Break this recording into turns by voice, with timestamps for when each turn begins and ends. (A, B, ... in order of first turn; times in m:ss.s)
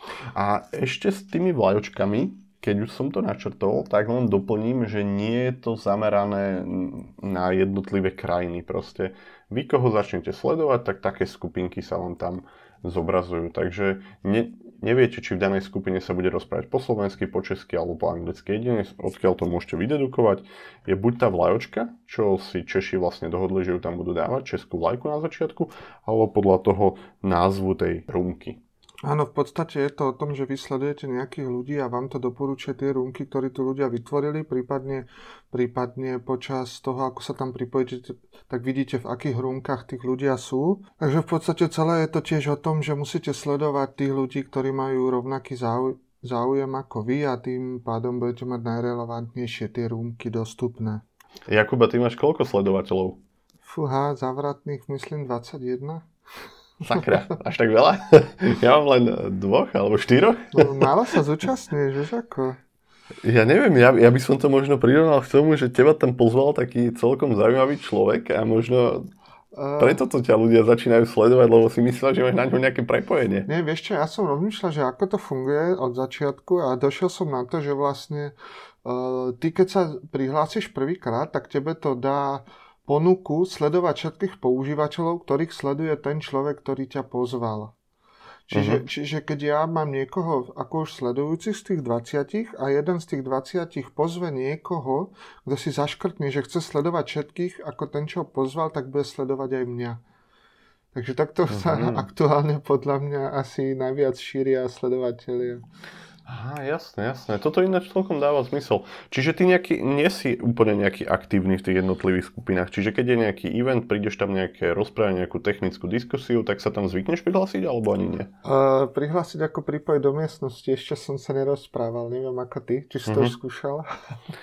0:00.3-0:28.6 A
0:29.0-0:51.0 B
0:51.5-0:53.2 A
0:53.6-0:56.1 B
0:56.8-1:00.9 A
1:00.5-1:02.6 B
1:03.2-1:09.1 A
1:09.5-1:10.0 B
1:09.8-1:13.5 A
1:13.5-1:18.3 B
1:18.8-1:27.7 B
1:28.5-1:40.0 B
1:28.5-1:28.8 A
1:40.9-1:45.6 B
1:41.5-1:42.1 A
1:46.3-1:58.3 A
1:58.4-2:03.9 B
2:03.1-2:03.3 A